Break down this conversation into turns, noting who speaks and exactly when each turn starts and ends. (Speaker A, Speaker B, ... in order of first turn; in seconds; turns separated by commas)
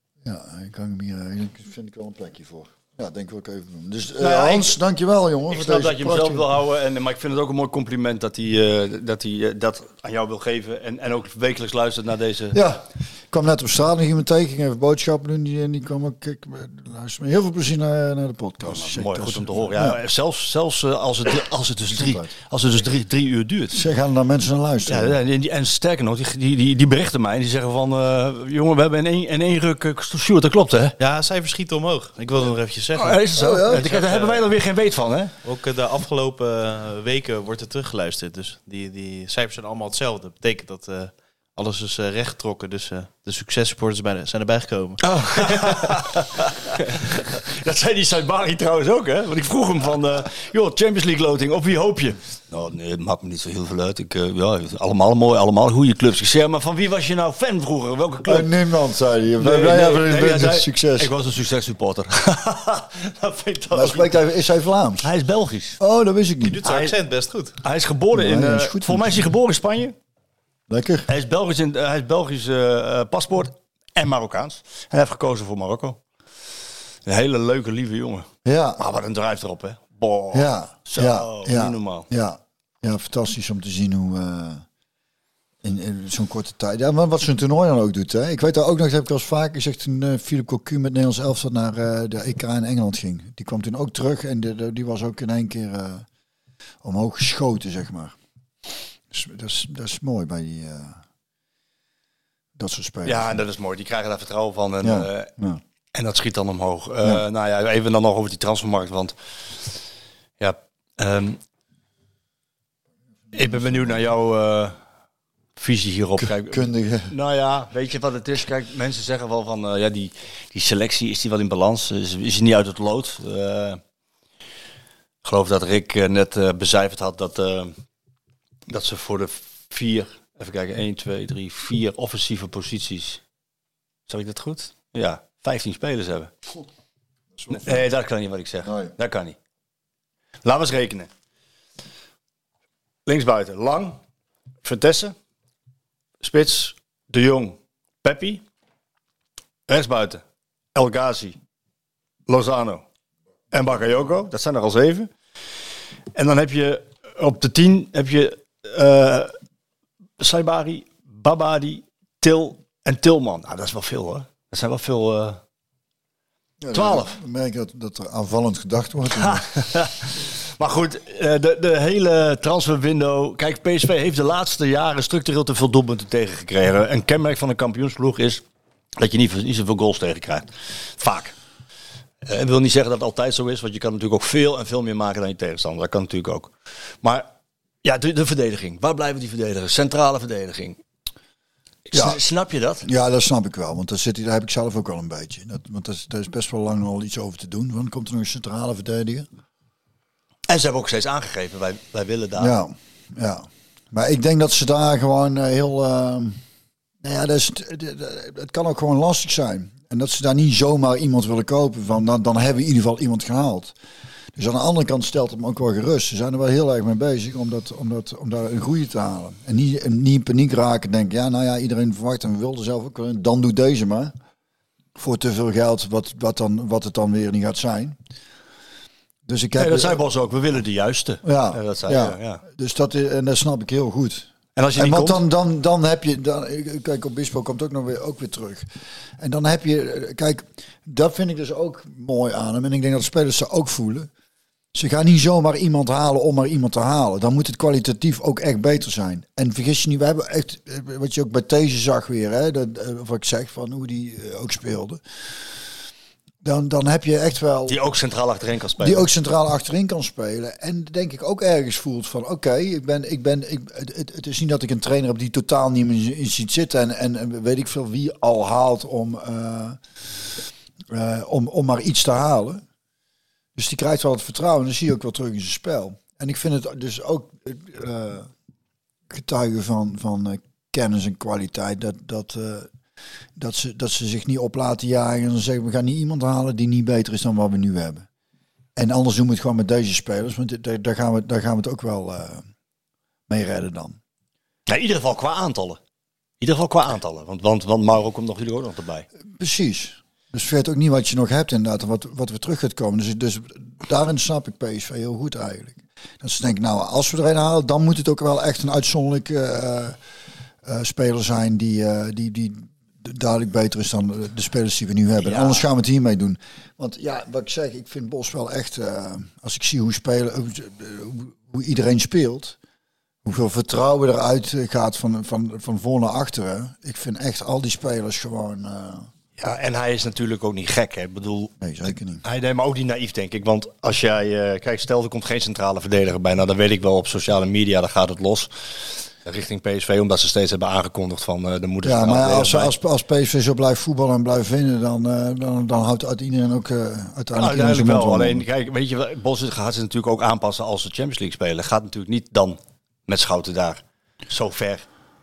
Speaker A: 0.2-6.5, Speaker B: 4.2-4.8, Speaker B: 5.5-12.6, Speaker A: 12.5-20.0, Speaker B: 18.7-23.8, Speaker A: 21.9-22.3, Speaker A: 23.7-25.1, Speaker B: 24.9-31.0, Speaker C: 31.0-34.4, Speaker B: 33.0-35.3, Speaker A: 33.4-33.8, Speaker C: 35.4-46.0, Speaker B: 45.0-58.5, Speaker A: 58.3-61.1, Speaker B: 59.4-64.2, Speaker A: 63.7-65.1, Speaker B: 65.0-65.8, Speaker A: 65.8-66.6, Speaker C: 66.4-67.5, Speaker B: 66.6-66.9, Speaker B: 67.6-69.9, Speaker A: 68.1-69.3, Speaker A: 70.7-71.1, Speaker B: 71.1-76.0, Speaker B: 77.0-82.1, Speaker A: 78.4-78.8, Speaker A: 80.3-84.6, Speaker A: 85.6-96.0, Speaker A: 96.8-98.2, Speaker A: 99.1-101.0, Speaker A: 102.6-103.4, Speaker B: 103.0-105.3, Speaker A: 104.8-105.6, Speaker B: 105.9-109.1, Speaker B: 110.4-111.4, Speaker A: 113.3-113.9, Speaker B: 113.3-114.7, Speaker B: 115.6-123.8, Speaker A: 116.2-117.1, Speaker B: 125.2-127.7, Speaker B: 128.7-133.2, Speaker B: 134.1-136.3, Speaker A: 137.4-137.8, Speaker B: 137.5-139.4, Speaker A: 138.6-138.9, Speaker B: 140.4-141.1, Speaker B: 143.1-144.0, Speaker B: 144.6-145.1, Speaker B: 146.2-148.4, Speaker B: 149.7-150.2, Speaker B: 150.7-151.4, Speaker B: 152.3-152.8, Speaker B: 153.5-155.1, Speaker B: 156.1-159.3, Speaker B: 160.2-165.4, Speaker A: 166.6-169.5, Speaker B: 166.7-167.2, Speaker B: 169.1-178.4, Speaker B: 179.0-181.3, Speaker B: 182.2-187.3, Speaker B: 187.8-190.8, Speaker B: 191.9-192.9, Speaker A: 191.9-192.2, Speaker A: 192.8-199.3, Speaker B: 200.5-202.6, Speaker A: 202.4-206.4, Speaker A: 207.0-213.7, Speaker A: 214.4-224.1, Speaker A: 224.9-228.0, Speaker A: 229.3-230.0, Speaker B: 229.6-232.4, Speaker A: 231.2-238.7, Speaker B: 234.6-235.2, Speaker A: 239.2-244.1, Speaker A: 244.7-255.0, Speaker A: 256.4-257.8, Speaker B: 257.7-259.1, Speaker A: 258.8-269.8, Speaker A: 270.9-272.6, Speaker A: 273.6-278.3, Speaker A: 279.1-282.7, Speaker A: 283.4-288.1, Speaker A: 288.8-292.4, Speaker A: 293.3-294.0, Speaker B: 294.7-295.8, Speaker B: 296.4-299.1, Speaker A: 299.4-310.0, Speaker A: 310.6-322.6, Speaker B: 315.2-315.6, Speaker A: 323.2-329.1, Speaker B: 329.4-331.5, Speaker A: 331.6-332.2, Speaker B: 332.2-338.5, Speaker B: 339.2-342.7, Speaker A: 341.8-348.4, Speaker B: 347.4-354.9